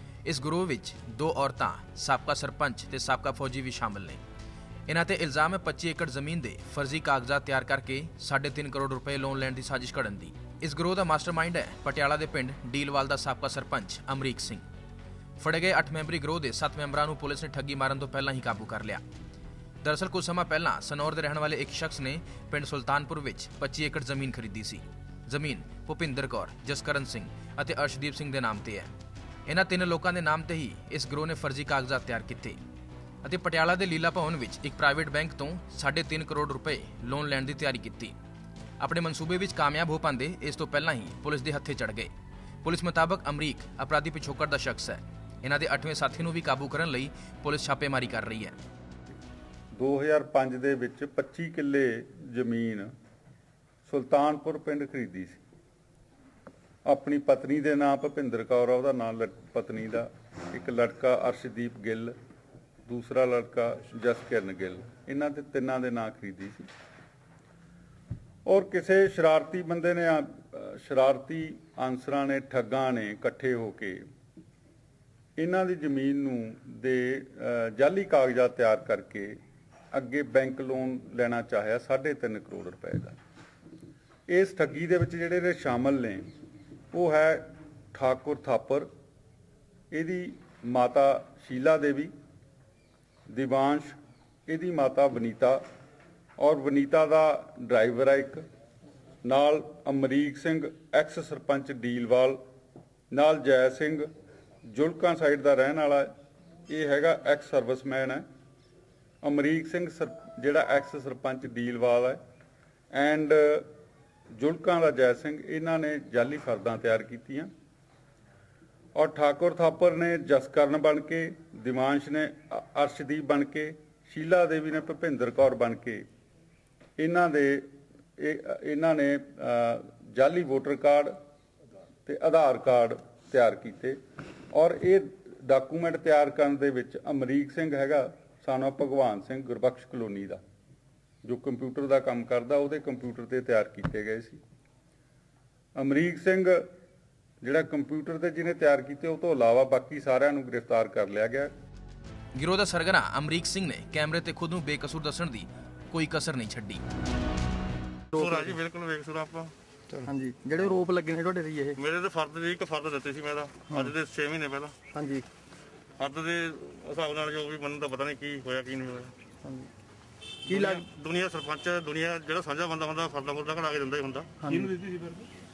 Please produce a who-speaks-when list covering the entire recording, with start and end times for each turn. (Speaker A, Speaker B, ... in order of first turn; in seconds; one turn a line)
Speaker A: 0.2-4.2
Speaker A: 4.9-14.6
Speaker A: 15.4-19.0
Speaker A: 19.8-28.9
Speaker A: 29.5-32.6
Speaker A: 33.2-38.1
Speaker A: 38.8-42.1
Speaker A: 42.6-48.6
Speaker B: 49.8-52.9
Speaker B: 53.9-55.4
Speaker B: 56.9-62.1
Speaker B: 62.9-66.7
Speaker B: 68.5-74.0
Speaker B: 75.4-79.4
Speaker B: 79.9-83.2
Speaker B: 84.3-86.3
Speaker B: 86.9-88.9
Speaker B: 89.9-92.1
Speaker B: 93.3-95.6
Speaker B: 96.4-98.4
Speaker B: 99.2-102.4
Speaker B: 103.1-104.1
Speaker B: 104.7-106.1
Speaker B: 106.7-108.2
Speaker B: 109.2-112.2
Speaker B: 112.9-113.7
Speaker B: 114.4-117.5
Speaker B: 119.0-126.0
Speaker B: 127.0-127.7
Speaker B: 128.2-131.2
Speaker B: 132.1-134.0
Speaker B: 134.5-140.4
Speaker B: 141.2-144.4
Speaker B: 145.8-146.7
Speaker B: 147.4-151.5
Speaker A: 152.4-156.8
Speaker C: 158.1-158.5
Speaker D: 158.1-159.5
Speaker C: 159.9-161.8
Speaker D: 161.8-164.8
Speaker C: 164.9-165.3
Speaker D: 166.0-169.2
Speaker C: 169.4-169.7
Speaker C: 170.5-170.8
Speaker D: 170.5-174.7
Speaker C: 174.4-174.9